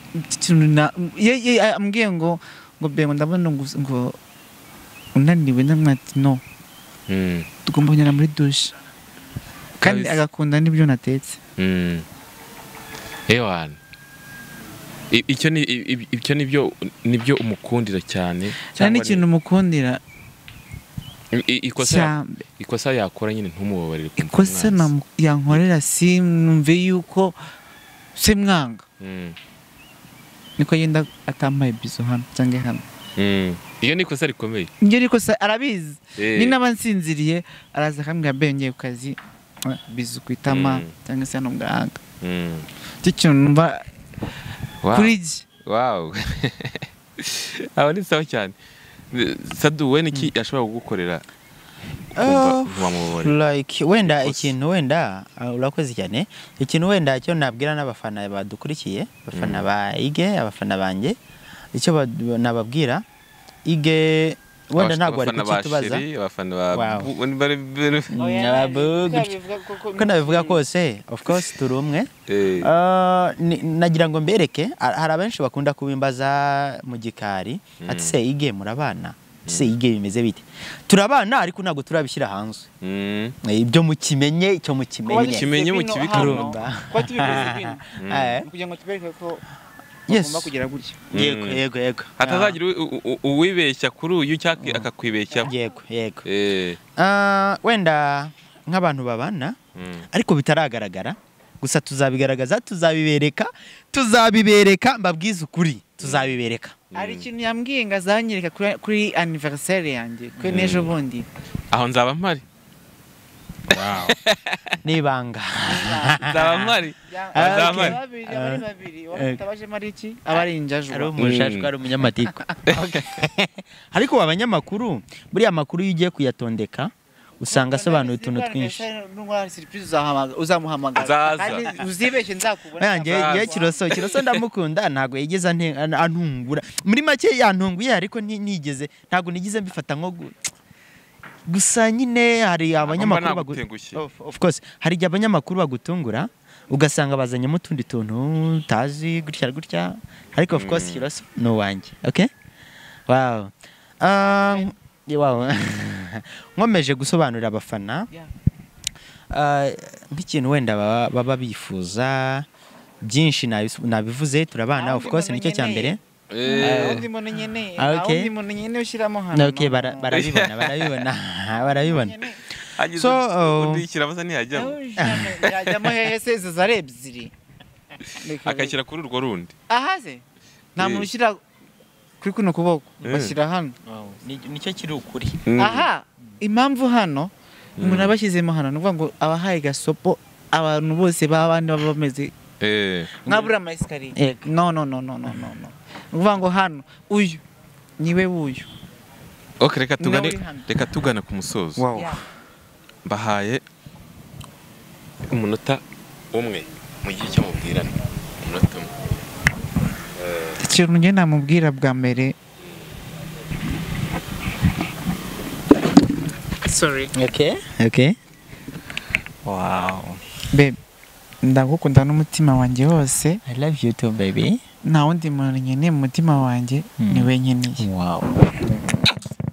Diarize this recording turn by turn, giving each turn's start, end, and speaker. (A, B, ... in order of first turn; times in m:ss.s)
0:00.1-0:04.2 A
0:05.1-0:06.4 A
0:07.1-0:07.5 B
0:07.6-0:08.7 A
0:09.8-0:10.2 B
0:09.8-0:11.4 A
0:11.6-0:12.0 B
0:13.3-0:13.8 B
0:15.1-0:19.2 B
0:18.7-0:20.0 A
0:21.3-0:24.9 B
0:21.8-0:22.4 A
0:24.2-0:27.4 A
0:28.2-0:28.8 A
0:29.0-0:29.4 B
0:30.6-0:32.8 A
0:33.2-0:34.7 B
0:34.8-0:42.0 A
0:36.2-0:36.6 B
0:40.5-0:40.9 B
0:42.2-0:42.7 B
0:43.0-0:43.9 A
0:44.8-0:48.5 B
0:44.9-0:45.4 A
0:49.1-0:51.2 B
0:52.1-1:01.2 C
0:52.2-0:53.4 B
0:54.0-0:54.5 B
0:59.3-0:59.6 B
1:01.7-1:03.0 C
1:03.6-1:06.0 C
1:04.8-1:08.1 B
1:06.7-1:07.1 C
1:08.1-1:09.4 C
1:08.2-1:10.6 A
1:09.9-1:12.1 C
1:12.3-1:12.7 B
1:12.6-1:22.7 C
1:17.8-1:18.2 B
1:19.4-1:19.7 B
1:22.8-1:23.4 B
1:23.4-1:25.5 C
1:25.0-1:27.8 A
1:25.1-1:26.5 B
1:26.1-1:28.5 C
1:28.0-1:28.4 B
1:28.4-1:29.4 A
1:30.1-1:30.5 C
1:30.1-1:31.0 A
1:31.1-1:31.6 B
1:31.1-1:32.6 C
1:32.2-1:35.5 B
1:34.6-1:34.9 C
1:35.4-1:36.2 C
1:36.2-1:36.8 B
1:37.0-1:39.6 C
1:39.8-1:40.0 B
1:40.1-1:46.8 C
1:46.0-1:46.3 B
1:46.9-1:47.3 B
1:46.9-1:51.3 A
1:50.4-1:50.9 B
1:51.7-1:52.4 B
1:53.7-1:54.2 C
1:53.7-1:54.8 B
1:54.8-1:56.8 C
1:55.6-1:56.3 A
1:56.2-1:58.0 B
1:57.1-2:01.1 A
1:57.3-1:59.4 C
2:00.9-2:08.8 C
2:01.2-2:01.7 B
2:02.7-2:03.2 B
2:07.5-2:14.0 A
2:11.0-2:11.7 B
2:12.8-2:20.4 C
2:13.1-2:14.3 B
2:21.5-2:32.3 C
2:22.8-2:24.0 B
2:30.5-2:31.1 B
2:33.1-2:38.1 C
2:39.3-2:42.5 C
2:43.0-2:46.0 C
2:44.8-2:50.2 A
2:46.3-2:47.0 B
2:46.6-2:47.1 C
2:47.8-2:48.3 C
2:49.3-2:52.2 C
2:50.1-2:51.0 B
2:51.7-2:52.4 A
2:52.8-2:54.8 B
2:52.9-2:53.8 C
2:54.5-2:57.3 A
2:55.0-2:55.4 C
2:55.4-2:55.9 B
2:58.2-2:58.8 A
2:58.4-2:59.5 B
2:59.7-3:00.2 A
3:00.8-3:01.4 A
3:00.8-3:01.1 B
3:02.2-3:03.8 A
3:03.0-3:03.4 B
3:04.1-3:05.4 C
3:05.4-3:05.9 B
3:05.6-3:12.3 A
3:07.8-3:08.1 B
3:12.6-3:13.1 B
3:13.2-3:13.5 C
3:13.2-3:17.4 A
3:14.1-3:14.5 C
3:18.0-3:18.7 A
3:19.6-3:21.8 B
3:20.0-3:20.7 A
3:21.8-3:22.2 C
3:21.9-3:22.2 A
3:23.0-3:23.6 B
3:25.3-3:25.8 B
3:26.3-3:28.9 B
3:30.2-3:30.6 B
3:30.6-3:32.3 A
3:36.6-3:37.1 A
3:37.1-3:38.2 C
3:39.4-3:40.2 C
3:40.5-3:40.8 A
3:41.4-3:43.4 A
3:43.4-3:44.6 C
3:44.8-3:47.9 A
3:47.0-3:48.8 C